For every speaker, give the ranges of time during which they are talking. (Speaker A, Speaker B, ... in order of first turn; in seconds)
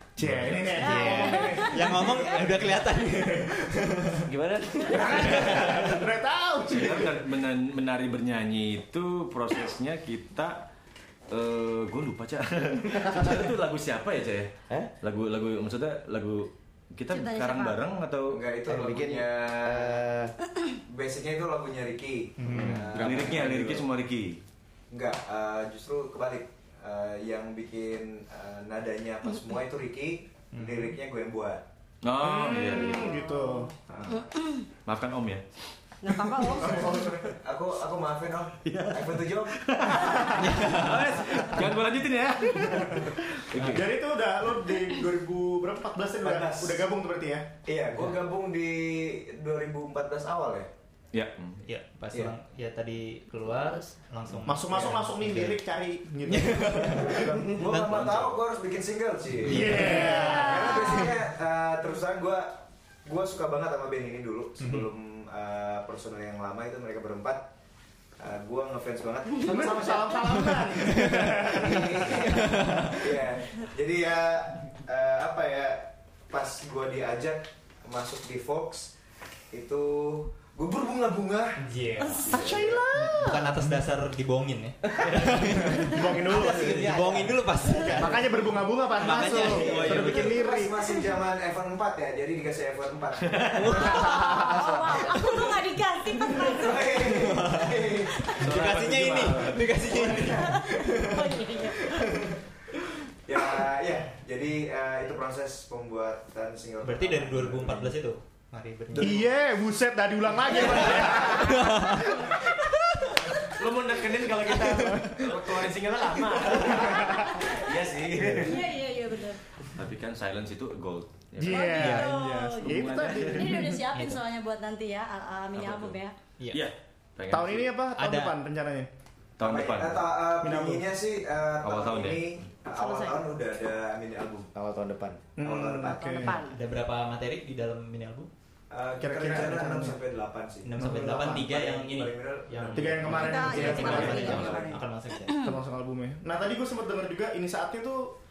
Speaker A: 0.2-1.9, 4.9-7.2, 32.2-33.7, 36.6-37.2, 43.6-47.5, 54.4-57.1, 59.5-60.6, 69.4-72.1, 82.2-83.7, 85.8-86.8, 87.9-90.8, 109.0-112.3, 116.8-117.3, 121.4-123.7, 127.3-128.9, 130.4-130.9, 135.4-136.4, 139.0-140.0, 140.8-141.5, 142.7-144.5, 145.3-148.1
Speaker B: 0.2-1.1, 4.3-5.7, 6.7-10.7, 11.3-18.4, 22.6-24.4, 32.0-33.1, 34.9-35.4, 38.6-43.9, 51.1-51.6, 57.7-58.4, 98.4-99.8, 113.4-118.7, 119.7-123.7, 125.5-126.0, 126.5-127.7, 129.4-130.1, 131.6-132.4
Speaker C: 0.8-2.3, 17.1-17.8, 32.8-34.6, 36.0-36.9, 60.2-61.0, 93.7-97.1, 98.1-98.4, 100.2-102.2, 111.9-112.5, 117.0-117.8, 118.3-119.4, 121.5-126.1, 132.7-133.2, 135.9-136.6, 143.1-144.8
Speaker D: 0.8-4.2, 5.2-5.8, 22.4-22.8, 30.5-30.9, 40.3-41.0, 51.6-55.5, 56.3-57.9, 59.4-61.0, 64.6-64.9, 70.7-73.1, 81.6-82.4, 83.2-88.3, 88.9-90.4, 93.5-94.6, 95.1-95.4, 96.9-102.4, 106.8-109.3, 110.6-112.2, 114.5-115.2, 116.3-116.8, 123.9-124.2, 126.4-126.7, 128.0-128.4, 136.4-138.3, 140.6-145.5
Speaker E: 2.2-2.7, 18.3-20.1, 20.9-23.9, 24.9-31.6, 33.9-34.3, 36.7-40.3, 46.2-46.8, 47.6-50.7, 56.9-67.4, 68.2-70.6, 71.4-78.9, 79.5-82.9, 89.3-95.2, 96.4-98.3, 99.8-100.5, 103.2-107.9, 108.9-109.3, 110.5-111.3, 129.4-134.5, 135.4-136.3, 138.7-144.8
Speaker F: 4.3-5.2, 18.6-20.3, 22.5-23.2, 85.0-85.3, 86.3-88.0, 134.5-135.3